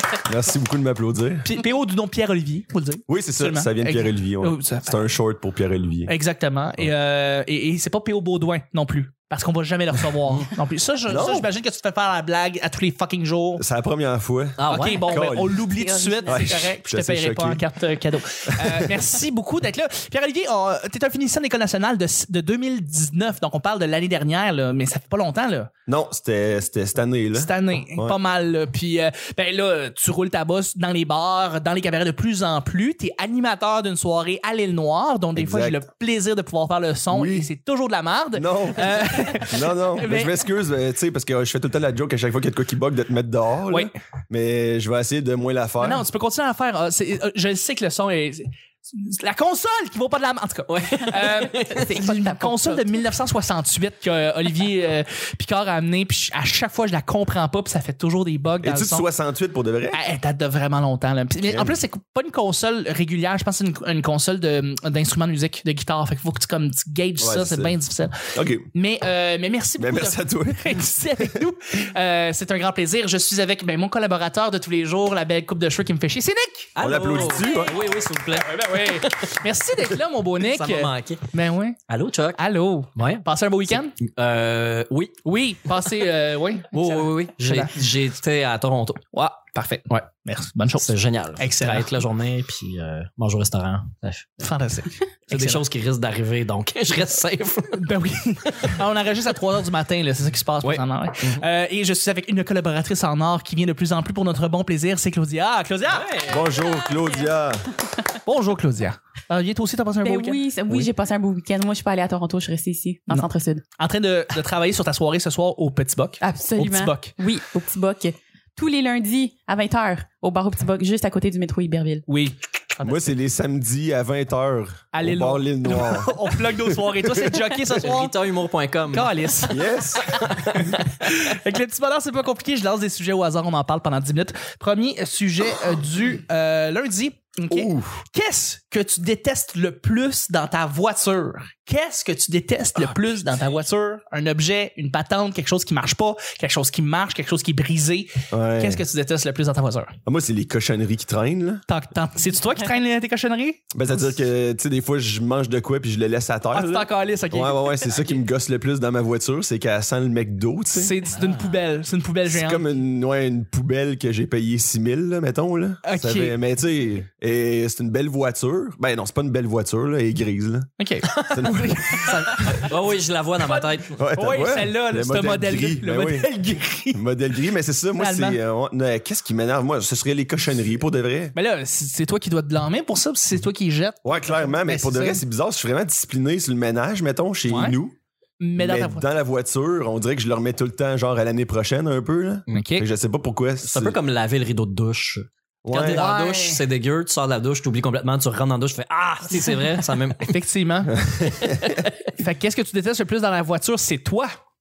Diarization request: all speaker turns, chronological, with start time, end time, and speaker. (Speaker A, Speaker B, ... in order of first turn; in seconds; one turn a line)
Speaker A: 0.2-1.5
Speaker B: 1.4-5.0
Speaker A: 3.1-6.1
Speaker B: 6.1-13.6
Speaker A: 11.1-11.5
Speaker A: 13.6-15.6
Speaker C: 14.6-15.3
Speaker B: 14.7-25.7
Speaker D: 15.7-16.6
Speaker A: 16.2-17.6
Speaker A: 25.9-28.2
Speaker B: 27.3-40.4
Speaker A: 35.4-35.8
Speaker A: 37.1-37.5
Speaker A: 38.3-46.0
Speaker B: 45.8-59.1
Speaker C: 50.7-52.0
Speaker D: 51.6-52.9
Speaker A: 58.6-60.0
Speaker B: 59.9-76.7
Speaker A: 61.5-61.8
Speaker A: 67.2-67.8
Speaker A: 68.3-68.7
Speaker A: 69.8-71.3
Speaker C: 76.7-79.4
Speaker A: 76.8-77.8
Speaker B: 77.3-77.5
Speaker B: 78.3-81.8
Speaker C: 80.4-81.3
Speaker C: 81.9-82.4
Speaker B: 82.4-83.9
Speaker C: 82.9-85.2
Speaker B: 85.2-87.7
Speaker C: 86.7-89.0
Speaker B: 89.1-91.9
Speaker C: 90.8-94.4
Speaker B: 94.4-95.6
Speaker C: 95.3-97.9
Speaker B: 97.8-106.2
Speaker C: 98.5-98.7
Speaker C: 100.6-101.4
Speaker C: 105.9-106.4
Speaker A: 106.2-107.7
Speaker D: 106.4-107.4
Speaker B: 108.2-110.4
Speaker D: 110.0-113.6
Speaker B: 113.8-117.1
Speaker D: 116.2-122.0
Speaker B: 122.1-123.1
Speaker A: 122.8-127.7
Speaker B: 124.9-128.2
Speaker C: 127.7-129.2
Speaker B: 128.9-149.9
Speaker A: 129.4-130.1
Speaker A: 137.5-138.0
Speaker A: 148.3-148.8
Speaker A: 150.1-151.6
Speaker B: 151.7-153.7
Speaker A: 153.7-160.9
Speaker B: 156.5-158.2
Speaker B: 160.7-162.6
Speaker C: 161.1-161.6
Speaker A: 162.2-170.7
Speaker B: 165.8-166.3
Speaker B: 170.8-172.7
Speaker A: 171.2-172.3
Speaker C: 172.3-174.0
Speaker B: 173.4-177.0
Speaker A: 173.9-176.3
Speaker A: 176.9-181.3
Speaker B: 177.9-178.4
Speaker B: 181.3-185.2
Speaker A: 184.0-187.9
Speaker B: 187.5-187.8
Speaker B: 188.4-189.0
Speaker A: 188.6-194.0
Speaker B: 192.5-192.8
Speaker C: 193.6-200.3
Speaker A: 195.6-196.1
Speaker B: 195.7-196.6
Speaker B: 200.3-201.0
Speaker A: 200.9-201.6
Speaker C: 201.4-202.0
Speaker B: 202.1-204.3